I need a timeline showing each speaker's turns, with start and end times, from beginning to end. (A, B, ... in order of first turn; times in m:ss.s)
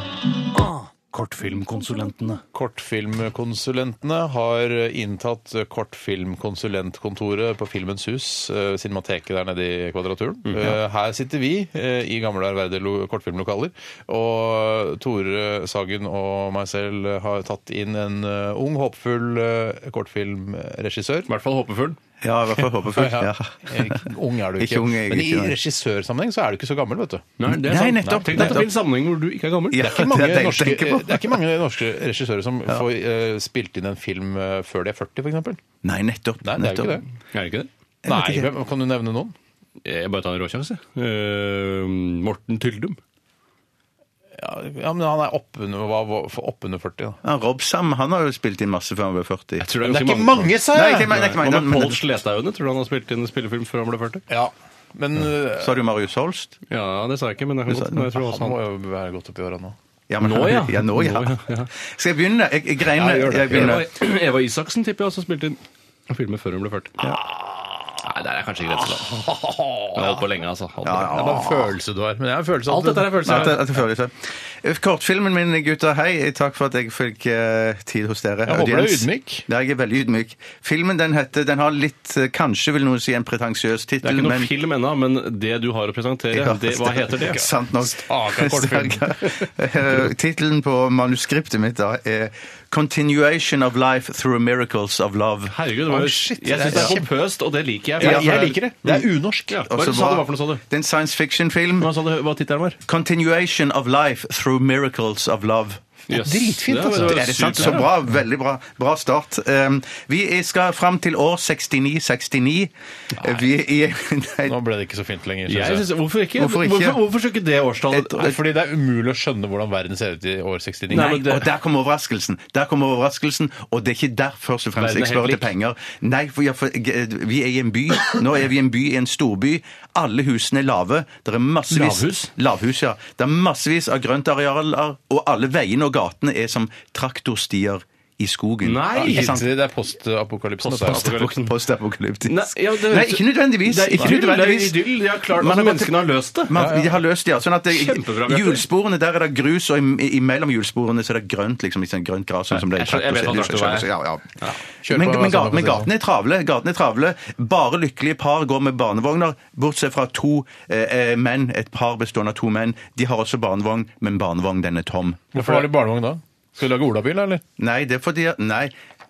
0:00.5-0:02.4 A
0:02.5-0:21.3 B
0:10.5-0:10.8 A
0:21.3-0:22.0 A
0:22.2-0:24.0 C
0:22.9-0:27.3 B
0:24.6-0:25.6 C
0:27.4-0:29.8 A
0:27.5-0:28.7 C
0:28.0-0:28.6 B
0:29.7-0:31.4 C
0:29.8-0:35.6 B
0:35.8-0:37.0 C
0:36.4-0:37.0 B
0:37.3-0:37.7 A
0:38.0-0:38.5 C
0:38.0-0:39.3 B
0:39.8-0:43.0 A
0:44.4-0:47.2 B
0:47.2-0:49.6 C
0:49.6-0:54.2 A
0:49.8-0:51.2 B
0:50.7-0:52.0 C
0:54.3-0:55.7 B
0:55.5-0:56.6 C
0:56.7-0:58.6 A
0:57.9-0:59.8 B
1:00.1-1:03.9 C
1:00.2-1:01.7 A
1:03.0-1:03.8 B
1:03.0-1:07.0 A
1:07.2-1:08.0 B
1:08.0-1:09.3 A
1:09.0-1:10.2 B
1:09.9-1:11.2 A
1:10.8-1:11.7 C
1:10.9-1:13.6 B
1:12.7-1:13.6 A
1:13.2-1:24.5 C
1:18.4-1:19.4 B
1:24.0-1:27.4 A
1:26.3-1:35.6 C
1:27.3-1:29.5 B
1:35.5-1:40.6 A
1:35.9-1:37.1 B
1:38.0-1:38.9 C
1:38.0-1:39.6 B
1:39.7-1:41.9 C
1:41.8-1:42.8 A
1:42.8-1:45.8 C
1:46.1-1:47.9 A
1:46.1-1:47.9 B
1:46.9-1:54.5 C
1:54.4-1:55.9 B
1:55.5-1:58.2 A
1:56.4-1:57.0 C
1:57.9-1:58.4 C
1:58.2-2:01.2 B
2:00.9-2:01.5 A
2:00.9-2:19.5 C
2:04.8-2:05.5 A
2:11.7-2:12.3 A
2:18.6-2:19.4 A
2:18.9-2:21.1 B
2:20.6-2:21.5 A
2:20.9-2:25.9 C
2:22.2-2:26.6 A
2:26.5-2:45.5 C
2:26.5-2:26.9 B
2:27.7-2:28.6 A
2:32.6-2:33.9 A
2:34.8-2:35.9 B
2:45.3-2:47.4 B
2:47.6-2:48.7 C